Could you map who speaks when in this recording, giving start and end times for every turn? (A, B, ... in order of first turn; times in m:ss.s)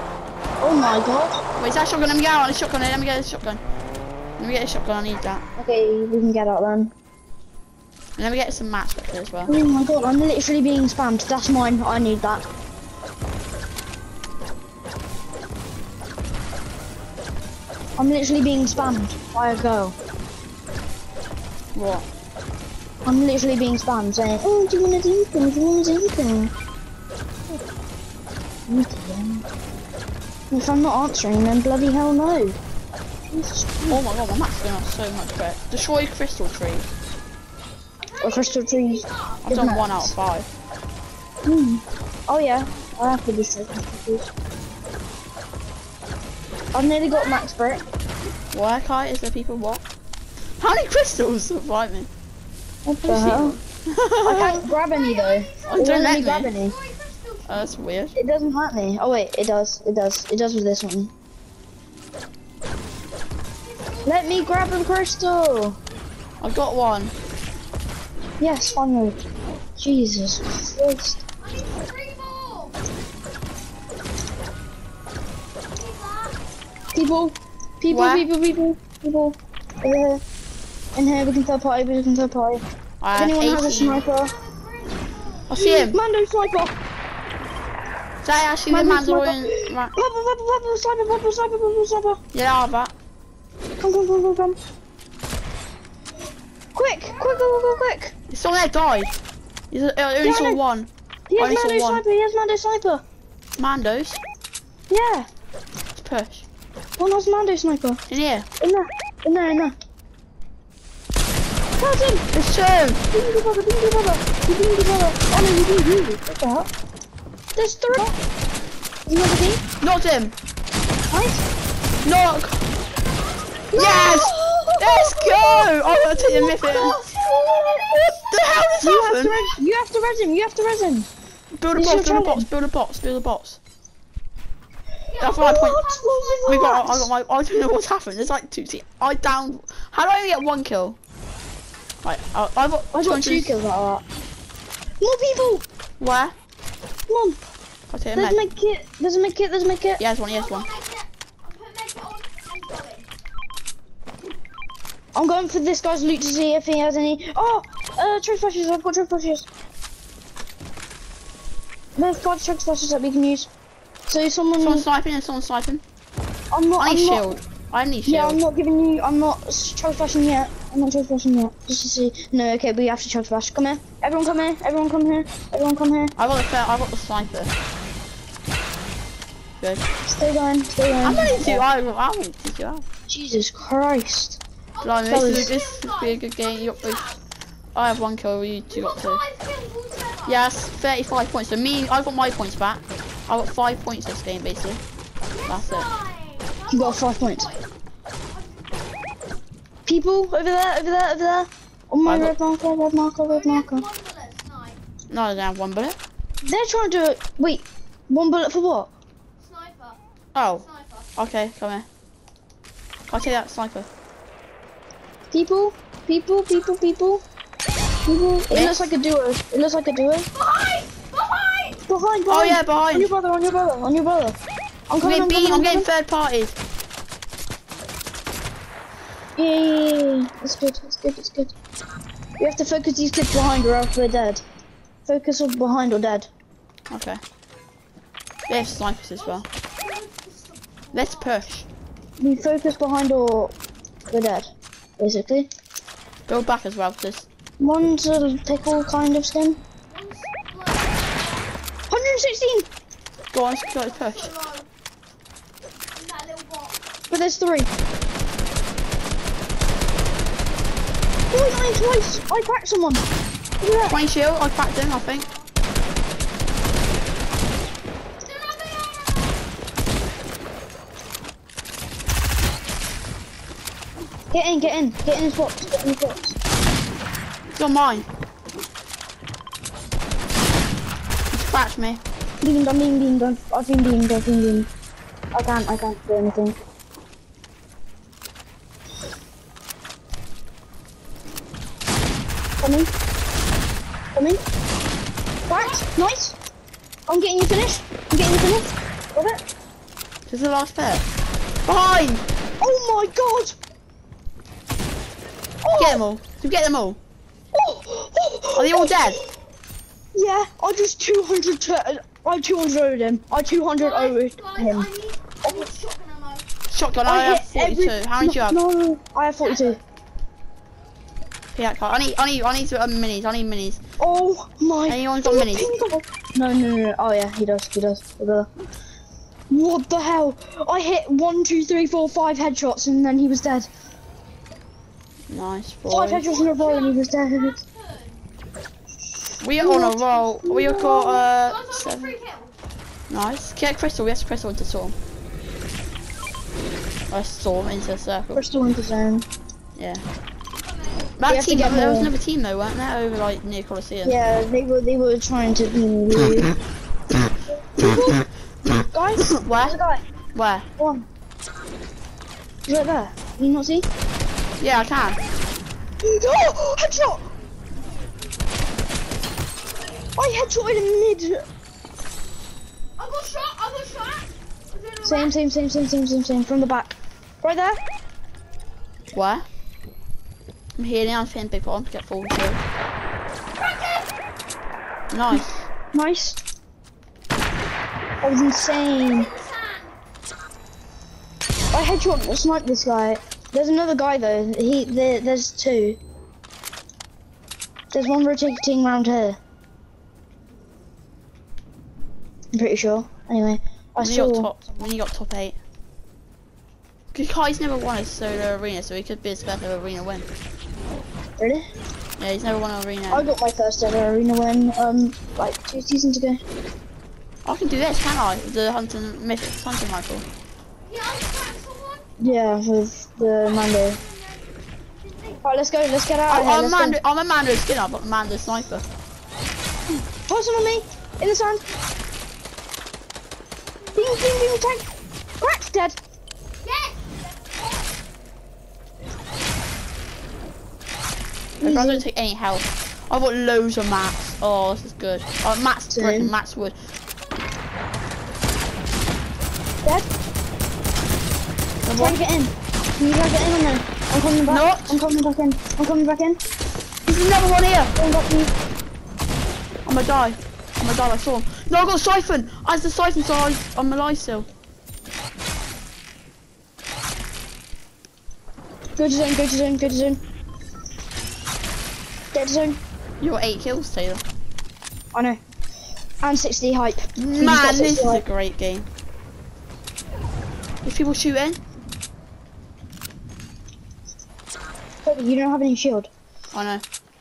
0:00.6-0:01.4 A
0:01.6-0:03.6 B
0:04.4-0:05.4 B
0:05.6-0:06.9 A
0:08.2-0:09.5 B
0:09.5-0:12.5 A
0:18.0-0:19.9 A
0:21.7-0:22.0 B
0:23.0-0:26.5 A
0:28.7-0:29.4 A
0:30.5-0:32.6 A
0:33.3-0:34.0 A
0:33.9-0:36.9 B
0:38.0-0:39.4 C
0:38.2-0:40.1 A
0:39.4-0:40.5 B
0:41.4-0:44.3 A
0:46.7-0:47.8 A
0:48.5-0:49.8 B
0:50.6-0:52.1 B
0:52.8-0:53.6 A
0:53.0-0:54.7 B
0:54.2-0:56.8 A
0:54.9-0:55.9 C
0:55.7-0:56.5 B
0:56.5-0:57.7 C
0:57.5-0:58.2 B
0:58.1-1:01.1 A
1:03.6-1:04.9 C
1:04.0-1:05.8 A
1:06.4-1:07.1 B
1:08.4-1:09.2 A
1:09.8-1:11.2 A
1:11.4-1:12.8 C
1:15.7-1:16.4 C
1:16.9-1:20.2 A
1:17.9-1:18.3 B
1:20.9-1:22.6 A
1:23.0-1:24.0 B
1:23.1-1:24.4 A
1:23.9-1:25.5 C
1:25.5-1:26.0 B
1:25.5-1:26.7 A
1:28.2-1:29.9 B
1:28.7-1:32.2 A
1:32.3-1:32.9 B
1:33.8-1:34.6 A
1:36.7-1:38.1 A
1:37.1-1:37.9 C
1:38.3-1:39.1 B
1:39.7-1:42.0 B
1:40.2-1:40.6 A
1:41.3-1:43.0 A
1:43.6-1:44.2 B
1:44.9-1:45.3 A
1:45.9-1:46.5 B
1:47.0-1:48.0 A
1:48.1-1:48.5 B
1:48.6-1:49.7 A
1:51.8-1:52.3 A
1:52.3-1:53.0 B
1:53.1-1:56.7 A
1:57.6-1:58.1 A
1:59.1-1:59.6 A
1:59.8-2:00.3 B
2:01.1-2:01.4 A
2:02.0-2:02.7 B
2:03.7-2:08.1 A
2:03.7-2:07.0 B
2:06.6-2:08.6 C
2:08.2-2:09.6 B
2:08.8-2:11.1 A
2:11.5-2:13.6 B
2:11.7-2:12.5 A
2:15.1-2:16.4 C
2:15.2-2:15.8 B
2:15.2-2:17.1 A
2:16.4-2:21.0 B
2:22.0-2:23.5 B
2:22.9-2:24.0 A
2:25.0-2:25.6 A
2:26.0-2:26.3 B
2:27.1-2:27.4 A
2:27.9-2:28.4 B
2:28.1-2:30.0 A
2:30.0-2:30.7 B
2:30.3-2:33.1 C
2:35.1-2:39.5 A
2:42.0-2:43.5 A
2:44.1-2:44.9 A
2:44.6-2:45.8 B
2:46.5-2:47.2 A
2:46.8-2:48.4 B
2:48.0-2:56.1 A
2:56.2-2:57.5 B
3:00.0-3:01.6 A
3:01.0-3:02.8 B
3:03.1-3:04.4 A
3:04.8-3:07.2 C
3:04.8-3:07.1 B
3:05.0-3:05.5 A
3:07.7-3:09.2 B
3:08.7-3:10.5 C
3:10.2-3:14.8 B
3:15.4-3:17.7 C
3:15.5-3:15.9 B
3:16.7-3:17.5 A
3:18.3-3:19.0 C
3:19.8-3:23.8 A
3:22.0-3:22.3 B
3:23.3-3:24.8 C
3:25.1-3:26.0 B
3:26.4-3:28.9 A
3:29.4-3:30.0 C
3:30.3-3:31.8 B
3:30.6-3:31.1 C
3:33.1-3:33.9 B
3:35.3-3:37.2 A
3:38.0-3:40.3 A
3:38.5-3:38.9 B
3:40.4-3:41.8 C
3:41.9-3:44.3 A
3:42.3-3:43.1 B
3:44.9-3:45.9 A
3:45.0-3:46.6 B
3:49.4-3:51.5 A
3:52.4-3:54.4 A
3:55.0-3:56.3 A
3:56.9-3:57.2 B
3:58.5-3:59.4 B
3:59.2-4:01.4 C
4:00.9-4:01.7 B
4:02.2-4:03.5 A
4:04.1-4:05.5 A
4:06.3-4:07.2 B
4:07.6-4:09.6 A
4:09.9-4:11.5 C
4:11.9-4:12.7 A
4:13.3-4:14.3 B
4:13.8-4:14.7 C
4:16.0-4:16.8 C
4:17.1-4:17.7 A
4:21.3-4:23.0 A
4:23.6-4:24.0 A
4:23.9-4:25.3 B
4:28.3-4:29.4 C
4:34.3-4:36.4 A
4:37.5-4:38.0 B
4:41.3-4:42.0 B
4:42.4-4:44.7 A
4:45.3-4:46.6 A
4:52.6-4:52.9 A
4:54.1-4:54.4 A
4:55.5-4:56.4 A
4:55.5-4:55.8 C
4:57.1-4:59.4 A
5:00.3-5:01.1 B
5:01.6-5:02.2 B
5:02.6-5:03.6 A
5:05.6-5:06.0 A
5:05.7-5:07.0 B
5:07.5-5:09.2 A
5:08.5-5:09.2 B
5:10.1-5:14.9 A
5:13.8-5:16.4 C
5:15.4-5:15.7 A
5:16.7-5:18.6 B
5:17.0-5:19.8 A
5:21.5-5:23.8 B
5:24.0-5:28.5 A
5:24.8-5:25.7 B
5:29.5-5:33.7 A
5:35.3-5:36.2 B
5:35.9-5:37.6 A
5:36.2-5:38.2 C
5:39.4-5:42.2 B
5:39.6-5:41.3 A
5:41.3-5:42.6 C
5:43.1-5:45.0 B
5:47.1-5:48.4 B
5:48.3-5:49.2 A
5:49.8-5:50.0 B
5:50.6-5:51.1 C
5:51.2-5:54.2 B
5:51.3-5:52.1 A
5:54.0-5:56.6 A
5:57.7-6:00.0 A
5:59.4-5:59.8 B
6:00.3-6:00.6 B
6:00.8-6:01.1 A
6:02.6-6:03.9 A
6:04.6-6:05.2 B
6:06.0-6:07.3 A
6:10.2-6:11.4 A
6:13.0-6:15.3 C
6:15.0-6:17.8 A
6:19.1-6:19.4 B
6:20.8-6:22.6 B
6:23.7-6:24.1 C
6:25.1-6:25.5 B
6:25.3-6:26.4 A
6:28.2-6:29.3 A
6:29.1-6:30.0 C
6:31.7-6:36.0 A
6:37.9-6:39.4 A
6:42.5-6:44.6 A
6:44.0-6:45.6 B
6:47.1-6:50.3 B
6:51.4-6:51.6 A
6:52.2-6:53.3 B
6:53.1-6:56.4 A
6:57.4-7:00.3 B
7:00.8-7:02.3 C
7:02.2-7:04.0 A
7:03.4-7:05.4 C
7:05.4-7:07.0 A
7:06.3-7:08.8 B
7:10.2-7:11.6 A
7:13.9-7:14.9 A
7:15.4-7:16.0 A
7:16.6-7:17.9 C
7:21.6-7:26.8 B
7:21.6-7:22.0 A
7:25.9-7:26.3 A
7:31.8-7:32.2 B
7:32.0-7:36.4 A
7:34.5-7:35.0 B
7:37.0-7:38.0 B
7:38.0-7:38.5 A
7:39.8-7:44.5 B
7:49.0-7:50.2 A
7:52.3-7:52.8 A
7:53.2-7:54.2 B
7:55.1-7:55.4 A
7:56.2-7:58.2 A
7:57.2-7:58.9 B
8:00.8-8:01.6 B
8:05.0-8:06.1 A
8:06.5-8:06.8 B